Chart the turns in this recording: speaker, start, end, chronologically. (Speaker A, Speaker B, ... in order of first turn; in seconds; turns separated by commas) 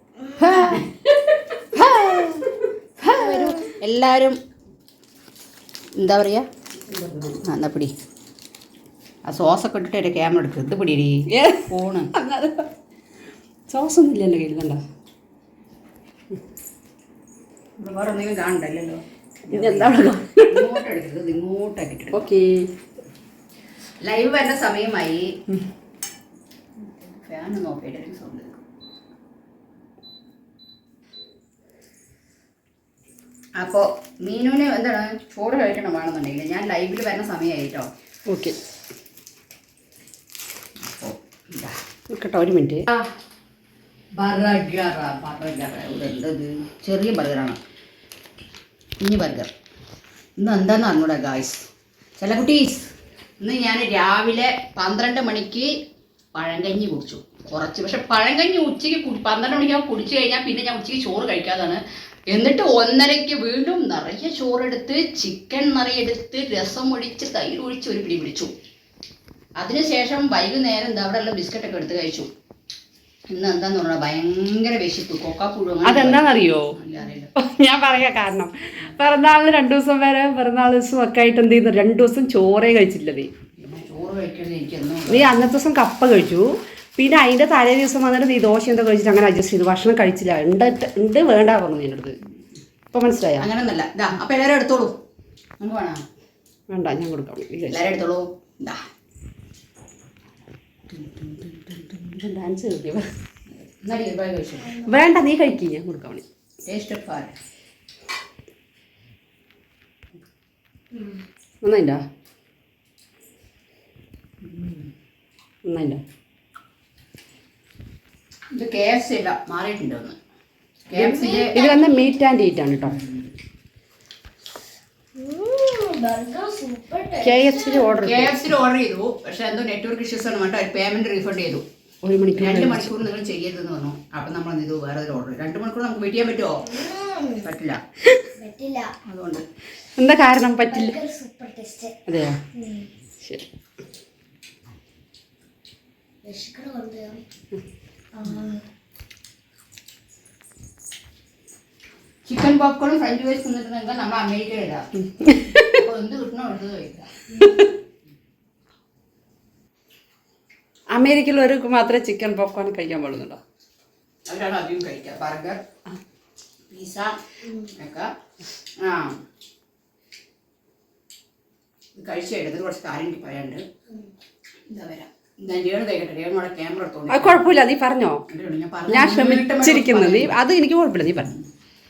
Speaker A: 0.3-0.9, Speaker B: 1.1-2.4, Speaker A: 1.8-2.5, Speaker A: 3.0-4.4, Speaker A: 6.0-6.5, Speaker B: 6.8-7.4, Speaker A: 7.4-7.9, Speaker A: 9.3-12.1, Speaker B: 11.3-12.7, Speaker B: 13.7-14.8, Speaker A: 17.8-22.3, Speaker B: 19.5-20.8, Speaker B: 22.1-22.7, Speaker A: 24.0-25.3, Speaker A: 27.0-28.6, Speaker A: 33.6-37.9, Speaker B: 38.3-38.6, Speaker A: 40.8-41.8, Speaker B: 42.1-42.9, Speaker A: 44.2-47.6, Speaker A: 49.0-49.5, Speaker A: 50.4-51.7, Speaker A: 52.2-52.9, Speaker A: 53.4-55.7, Speaker A: 56.4-68.5, Speaker A: 69.6-72.3, Speaker A: 73.3-77.3, Speaker B: 75.8-76.8, Speaker B: 77.4-83.3, Speaker A: 83.6-85.4, Speaker B: 85.1-92.2, Speaker B: 92.9-93.5, Speaker A: 93.4-95.0, Speaker A: 95.6-96.0, Speaker B: 96.7-97.9, Speaker A: 97.7-98.8, Speaker B: 101.0-103.1, Speaker A: 103.5-104.9, Speaker B: 104.8-106.2, Speaker A: 106.7-107.3, Speaker B: 111.6-112.0, Speaker A: 114.5-114.8, Speaker B: 115.7-116.0, Speaker A: 118.5-120.2, Speaker A: 120.9-121.6, Speaker B: 120.9-123.0, Speaker C: 121.4-122.1, Speaker C: 125.2-127.9, Speaker B: 127.2-128.5, Speaker A: 128.0-131.7, Speaker B: 132.0-132.9, Speaker A: 132.4-137.8, Speaker C: 136.8-137.4, Speaker C: 138.4-138.9, Speaker A: 139.1-139.4, Speaker B: 140.0-141.0, Speaker C: 140.7-142.0, Speaker B: 142.1-142.4, Speaker C: 142.6-142.9, Speaker B: 143.2-143.5, Speaker C: 146.2-147.2, Speaker C: 148.2-148.6, Speaker A: 152.2-157.5, Speaker B: 155.2-155.8, Speaker B: 157.4-157.7, Speaker B: 160.9-163.4, Speaker A: 164.3-165.6, Speaker A: 166.7-168.1, Speaker A: 168.8-169.2, Speaker A: 172.0-173.6, Speaker A: 174.7-177.4, Speaker B: 177.1-178.3, Speaker A: 178.3-180.4, Speaker B: 178.9-181.3